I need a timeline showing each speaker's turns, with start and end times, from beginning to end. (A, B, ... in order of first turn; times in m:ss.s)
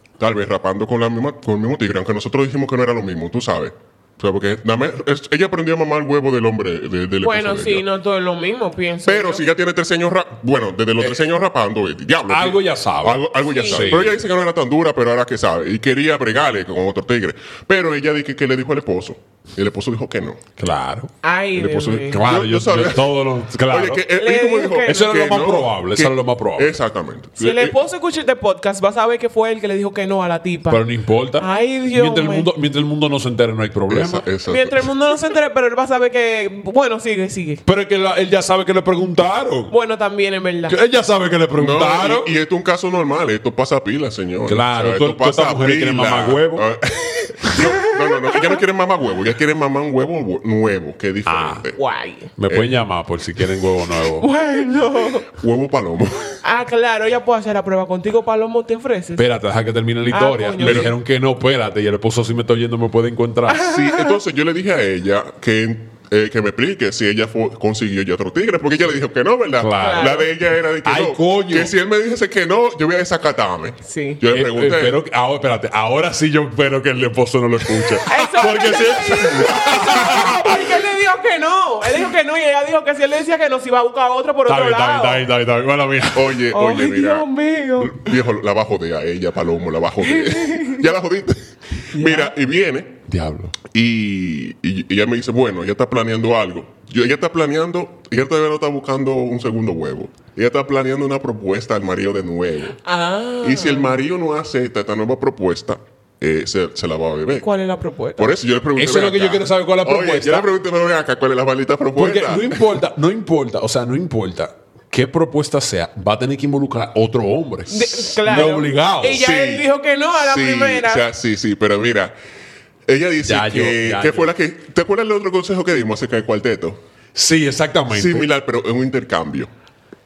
0:00.2-0:07.8 A
0:07.2-0:09.4 B
0:09.1-0:20.4 A
0:12.3-0:14.3 C
0:13.5-0:14.0 B
0:20.6-0:21.1 C
0:21.2-0:22.2 B
0:21.6-0:27.8 A
0:22.1-0:24.0 C
0:24.1-0:25.1 B
0:24.9-0:26.7 C
0:27.4-0:30.9 B
0:30.7-0:34.3 C
0:31.4-0:32.5 B
0:33.9-0:34.9 A
0:34.5-0:37.6 B
0:37.7-0:39.8 C
0:39.7-0:40.8 B
0:40.7-0:42.3 C
0:41.6-0:51.8 A
0:44.5-0:46.7 C
0:47.6-0:48.6 B
0:51.3-0:51.7 C
0:51.8-0:52.3 B
0:52.4-0:54.3 C
0:52.5-0:52.8 A
0:54.2-0:55.3 B
0:55.3-0:56.4 A
0:56.4-0:59.2 B
0:59.2-1:03.7 C
1:00.1-1:00.9 B
1:00.6-1:00.9 A
1:03.5-1:04.2 B
1:03.6-1:15.0 A
1:09.6-1:10.2 C
1:09.8-1:10.3 B
1:10.8-1:11.7 C
1:13.8-1:14.2 B
1:14.3-1:20.7 C
1:18.1-1:25.3 B
1:19.2-1:20.3 A
1:24.5-1:26.4 C
1:26.1-1:27.3 A
1:26.5-1:28.2 B
1:27.8-1:33.0 A
1:30.0-1:30.8 B
1:32.0-1:32.3 B
1:33.1-1:33.6 C
1:33.7-1:42.8 A
1:42.8-1:44.0 B
1:43.4-1:47.5 A
1:47.4-1:48.4 B
1:48.2-1:52.8 A
1:48.8-1:50.5 C
1:52.0-1:59.3 C
1:57.7-2:01.0 B
1:59.2-1:59.7 A
2:00.2-2:02.2 A
2:02.9-2:06.8 A
2:03.2-2:04.3 C
2:07.2-2:08.3 C
2:07.9-2:09.5 A